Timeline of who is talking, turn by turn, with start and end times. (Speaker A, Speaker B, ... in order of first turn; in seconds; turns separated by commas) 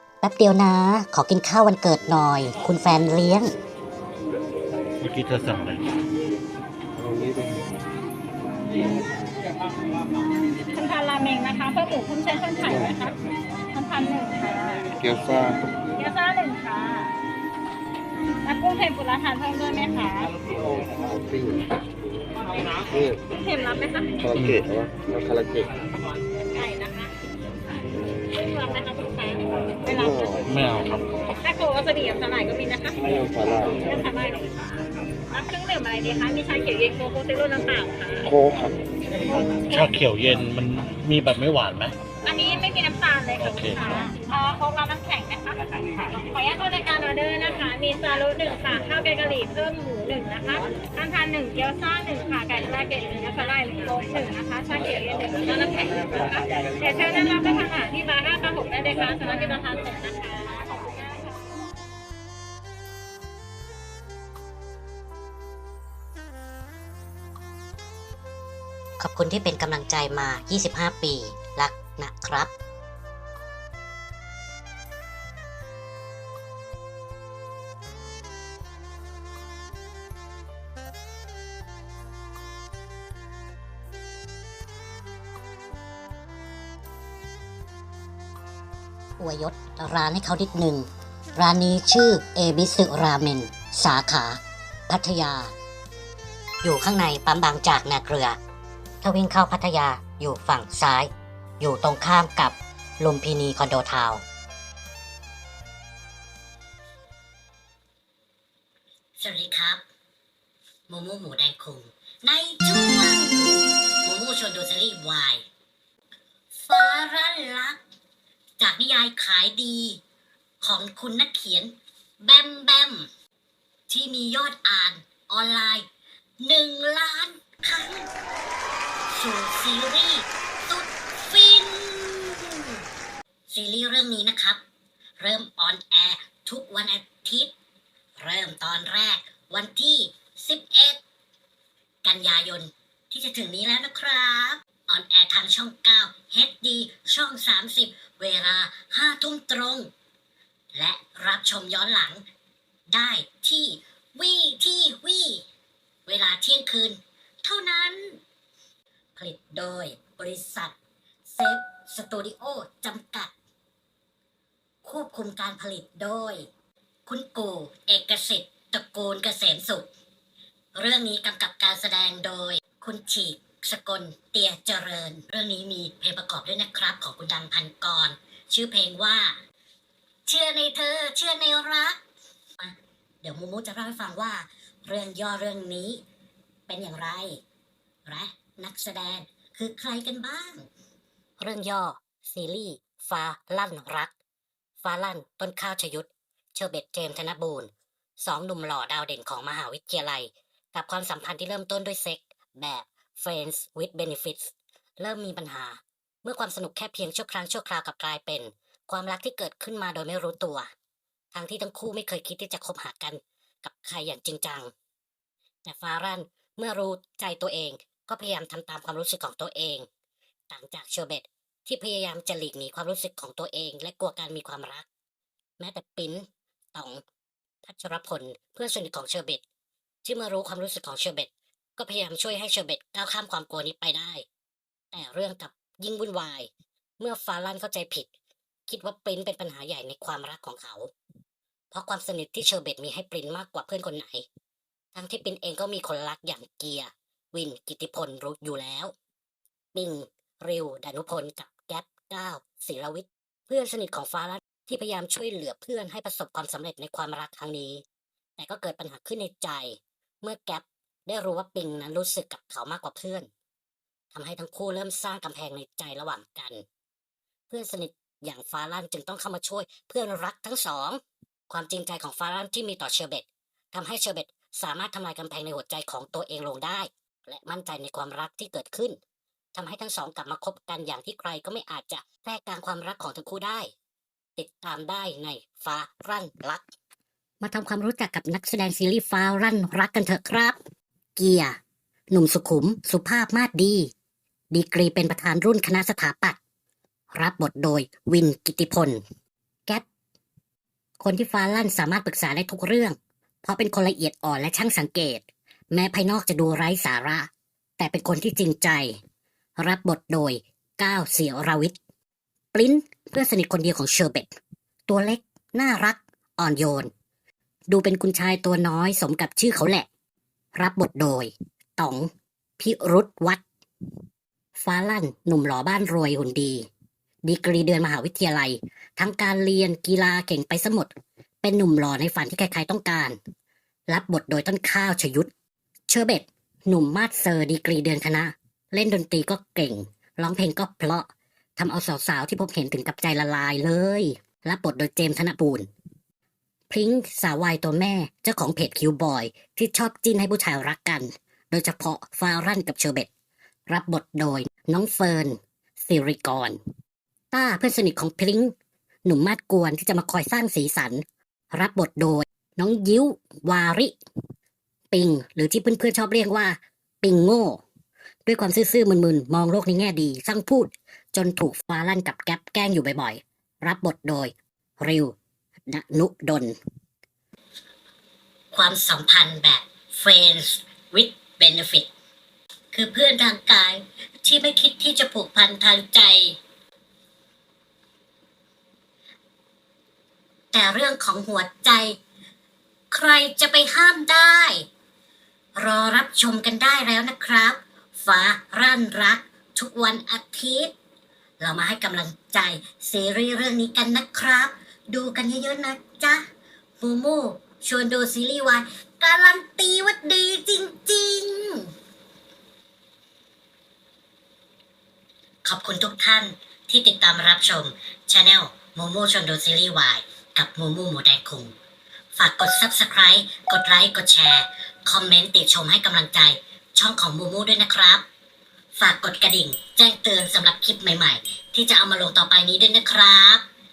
Speaker A: 0.2-3.5, Speaker B: 5.0-5.9, Speaker C: 10.7-13.2, Speaker C: 13.7-15.0, Speaker D: 15.1-15.5, Speaker C: 16.0-17.1, Speaker C: 18.4-20.3, Speaker C: 23.3-24.2, Speaker B: 24.4-24.7, Speaker D: 24.6-25.7, Speaker C: 26.6-27.1, Speaker C: 28.3-30.4, Speaker B: 30.5-31.1, Speaker C: 31.4-34.6, Speaker D: 33.4-33.7, Speaker C: 35.3-38.3, Speaker D: 38.3-38.7, Speaker C: 39.3-40.0, Speaker B: 39.6-42.0, Speaker C: 42.2-61.4, Speaker B: 43.4-43.9, Speaker A: 69.0-72.5, Speaker A: 89.2-95.5, Speaker A: 96.6-98.4, Speaker A: 99.0-104.2, Speaker A: 109.2-109.8, Speaker A: 110.9-115.4, Speaker A: 116.5-117.8, Speaker A: 118.6-120.0, Speaker A: 120.6-123.1, Speaker A: 123.9-125.9, Speaker A: 126.4-128.1, Speaker A: 129.1-132.8, Speaker A: 133.5-134.6, Speaker A: 135.2-137.5, Speaker A: 138.2-141.0, Speaker A: 142.0-149.9, Speaker A: 150.7-152.2, Speaker A: 152.9-155.4, Speaker A: 156.1-158.2, Speaker A: 159.2-160.8, Speaker A: 161.3-163.3, Speaker A: 164.8-166.5, Speaker A: 167.1-169.9, Speaker A: 170.8-179.4, Speaker A: 180.3-182.0, Speaker A: 182.6-186.0, Speaker A: 186.7-187.4, Speaker A: 188.1-190.7, Speaker A: 191.4-194.1, Speaker A: 194.8-210.7, Speaker A: 211.3-214.7, Speaker A: 215.7-219.9, Speaker A: 220.5-224.9, Speaker A: 225.6-227.0, Speaker A: 227.6-229.4, Speaker A: 230.0-234.2, Speaker A: 234.9-238.1, Speaker A: 238.7-240.9, Speaker A: 241.7-244.3, Speaker A: 244.9-248.9, Speaker A: 249.7-257.8, Speaker A: 258.4-263.3, Speaker A: 264.1-266.6, Speaker A: 267.5-279.0, Speaker A: 279.5-283.7, Speaker A: 284.4-286.6, Speaker A: 287.4-290.6, Speaker A: 291.2-291.6, Speaker A: 292.1-293.9, Speaker A: 294.5-296.4, Speaker A: 297.1-299.0, Speaker A: 301.0-309.0, Speaker A: 309.6-311.8, Speaker A: 312.5-314.4, Speaker A: 314.9-316.9, Speaker A: 317.7-319.9, Speaker A: 320.6-323.4, Speaker A: 324.6-326.7, Speaker A: 327.2-330.9, Speaker A: 331.4-333.2, Speaker A: 333.9-335.3, Speaker A: 335.9-345.7, Speaker A: 346.7-353.1, Speaker A: 353.7-356.6, Speaker A: 357.3-358.5, Speaker A: 359.1-364.0, Speaker A: 364.9-367.6, Speaker A: 368.3-375.1, Speaker A: 375.7-376.6, Speaker A: 378.5-381.9, Speaker A: 382.7-386.4, Speaker A: 390.5-392.0, Speaker A: 392.9-394.7, Speaker A: 395.6-400.7, Speaker A: 401.4-406.2, Speaker A: 406.8-411.7, Speaker A: 415.4-421.6, Speaker A: 422.1-428.1, Speaker A: 428.8-433.4